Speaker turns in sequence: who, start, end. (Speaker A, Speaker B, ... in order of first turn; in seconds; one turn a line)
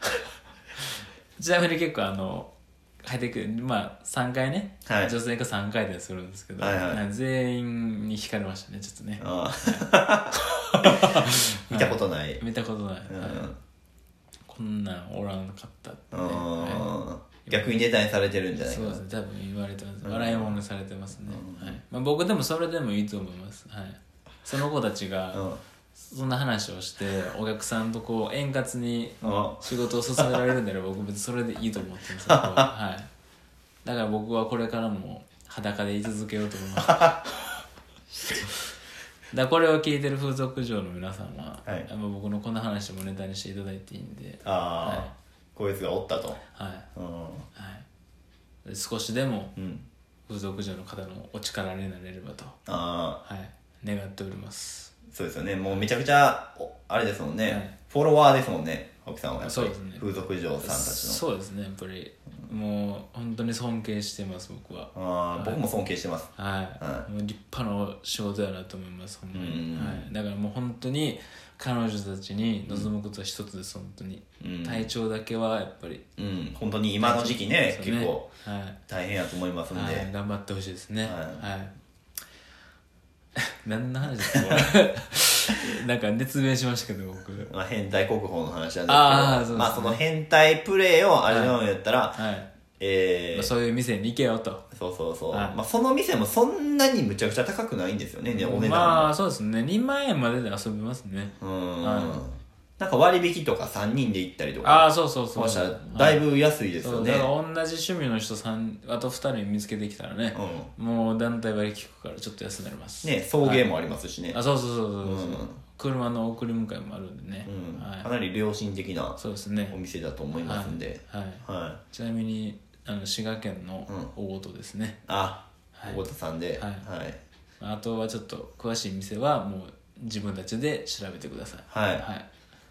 Speaker A: 1.4-2.5
Speaker A: 3.0-9.8
Speaker B: 4.9-5.1
Speaker B: 6.6-7.0
Speaker B: 9.2-12.4
Speaker A: 10.7-13.5
Speaker B: 13.1-13.6
Speaker A: 14.5-16.9
Speaker B: 16.1-19.0
Speaker A: 17.5-17.7
Speaker A: 18.6-25.4
Speaker B: 20.0-20.6
Speaker B: 21.2-21.8
Speaker B: 25.3-25.6
Speaker A: 26.0-33.1
Speaker B: 29.2-30.3
Speaker B: 32.3-32.7
Speaker A: 33.8-37.4
Speaker B: 36.9-37.2
Speaker A: 39.3-45.1
Speaker B: 44.5-46.4
Speaker A: 46.5-46.9
Speaker B: 47.0-47.5
Speaker A: 47.5-47.9
Speaker A: 48.6-49.5
Speaker B: 49.6-49.9
Speaker A: 50.3-52.6
Speaker B: 52.7-53.2
Speaker A: 53.2-54.9
Speaker B: 55.1-61.2
Speaker A: 57.5-57.7
Speaker A: 59.4-65.6
Speaker B: 65.0-67.1
Speaker A: 66.4-76.1
Speaker B: 69.3-70.1
Speaker B: 74.4-74.9
Speaker B: 76.2-78.3
Speaker A: 77.0-78.8
Speaker B: 78.9-80.1
Speaker A: 79.7-81.8
Speaker B: 81.0-81.5
Speaker A: 83.6-87.5
Speaker B: 87.5-92.2
Speaker A: 88.9-90.0
Speaker A: 91.3-91.6
Speaker A: 92.2-92.5
Speaker B: 92.8-93.5
Speaker A: 93.3-94.6
Speaker B: 94.7-99.1
Speaker A: 95.3-95.6
Speaker A: 98.3-102.2
Speaker B: 101.4-107.3
Speaker A: 104.6-106.3
Speaker A: 106.8-113.7
Speaker B: 110.3-110.7
Speaker B: 113.0-114.4
Speaker A: 114.3-118.1
Speaker B: 115.0-115.6
Speaker B: 117.5-119.2
Speaker A: 119.2-119.8
Speaker B: 119.7-121.8
Speaker A: 120.4-125.0
Speaker B: 125.1-127.2
Speaker A: 125.8-126.0
Speaker A: 126.6-126.9
Speaker A: 127.6-132.3
Speaker B: 131.7-132.1